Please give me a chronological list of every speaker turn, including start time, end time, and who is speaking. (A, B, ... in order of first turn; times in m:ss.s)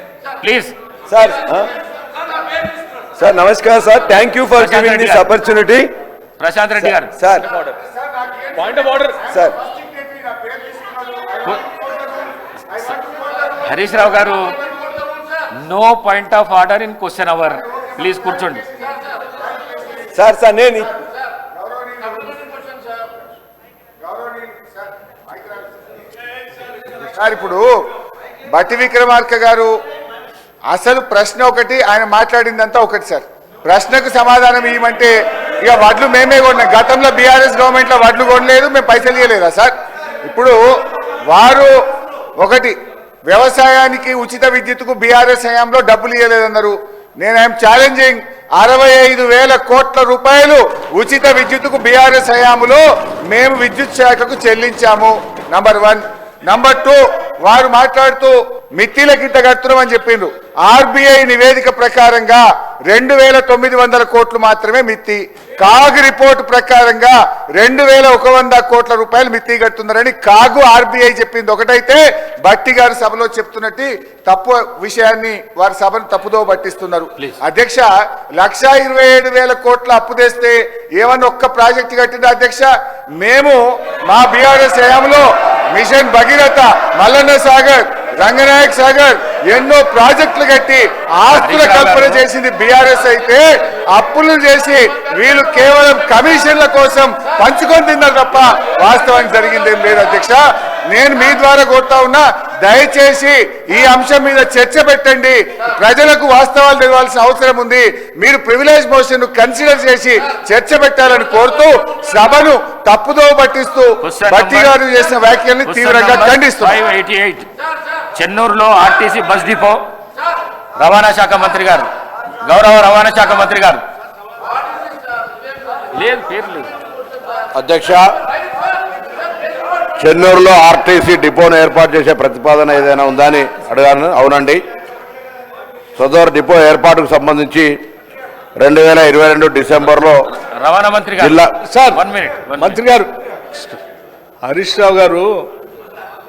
0:00.4-0:00.7 A
0:01.1-0:01.7 B
0:03.2-0:05.9 B
0:04.5-0:05.3 A
0:06.4-0:07.1 A
0:06.8-0:07.4 B
0:08.0-0:08.8 C
0:08.6-0:09.1 A
0:09.3-0:09.6 B
0:09.6-0:11.5 C
0:12.7-0:13.6 C
0:13.6-0:14.6 A
0:15.5-0:18.6 A
0:19.3-0:20.1 C
0:20.1-0:20.9 B
0:21.5-0:22.4 C
0:24.0-0:25.7 C
0:27.1-0:27.7 C
0:28.5-0:29.7 C
0:30.7-0:39.7 C
0:40.2-0:40.6 C
0:41.3-0:41.7 C
0:42.4-0:42.7 C
0:43.3-1:22.7 C
1:23.2-1:56.8 C
1:31.3-1:32.2 A
1:54.0-1:54.8 A
1:55.7-1:57.5 A
1:58.1-1:59.8 A
2:00.8-2:01.9 A
2:02.4-2:03.8 A
2:05.9-2:06.7 A
2:07.5-2:08.1 D
2:10.0-2:14.6 D
2:16.0-2:17.7 D
2:18.6-2:20.1 D
2:20.4-2:21.4 A
2:21.2-2:21.5 D
2:21.6-2:22.0 E
2:21.9-2:22.8 A
2:22.5-2:23.8 E
2:24.4-2:25.3 E